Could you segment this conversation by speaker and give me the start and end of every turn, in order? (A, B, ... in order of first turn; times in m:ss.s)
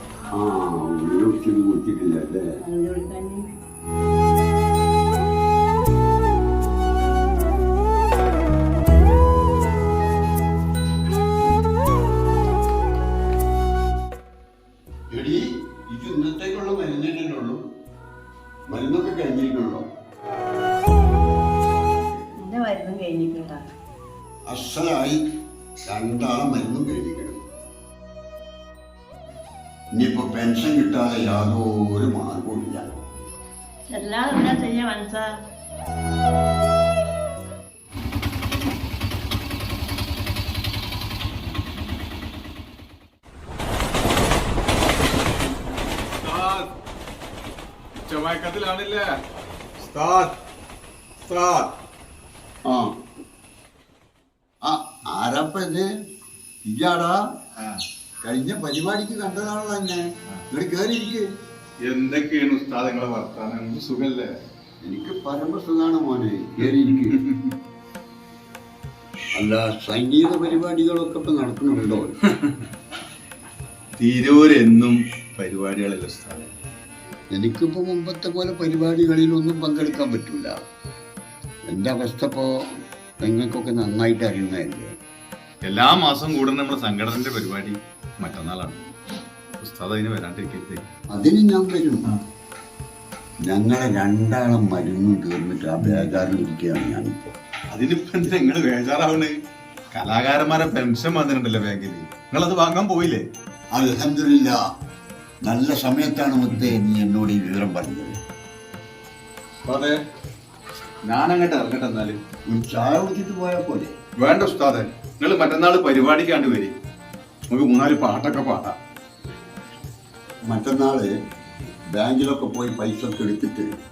0:00.3-0:02.5 A
0:02.7-0:03.4 B
0:15.1-0:17.6 A
0:18.7-0:19.9 A
0:22.4-0:23.6 B
0:24.5-0:25.2 A
0:25.9-0:27.4 A
0:30.0-0:33.0 A
0:33.9-0:35.4 B
0:46.2-0:46.7 C
0:48.1-0:49.1 C
0:49.8-0:50.4 C
0:51.2-0:51.8 C
0:52.7-0:52.9 A
0:54.6-0:55.9 A
0:56.7-0:57.2 A
0:58.2-1:01.2 A
1:01.9-1:04.3 C
1:04.8-1:07.2 A
1:06.7-1:07.5 C
1:09.3-1:12.2 A
1:14.0-1:16.5 C
1:17.3-1:20.6 A
1:21.7-1:22.5 A
1:23.2-1:24.9 A
1:25.6-1:28.9 C
1:29.6-1:30.8 C
1:31.1-1:32.1 A
1:33.4-1:37.3 A
1:37.7-1:39.4 C
1:39.9-1:43.2 C
1:43.7-1:44.6 A
1:45.4-1:48.2 A
1:49.7-1:50.0 C
1:51.1-1:52.2 C
1:52.5-1:53.9 A
1:54.2-1:56.7 C
1:57.5-1:58.8 C
2:00.5-2:01.1 A
2:01.9-2:03.7 A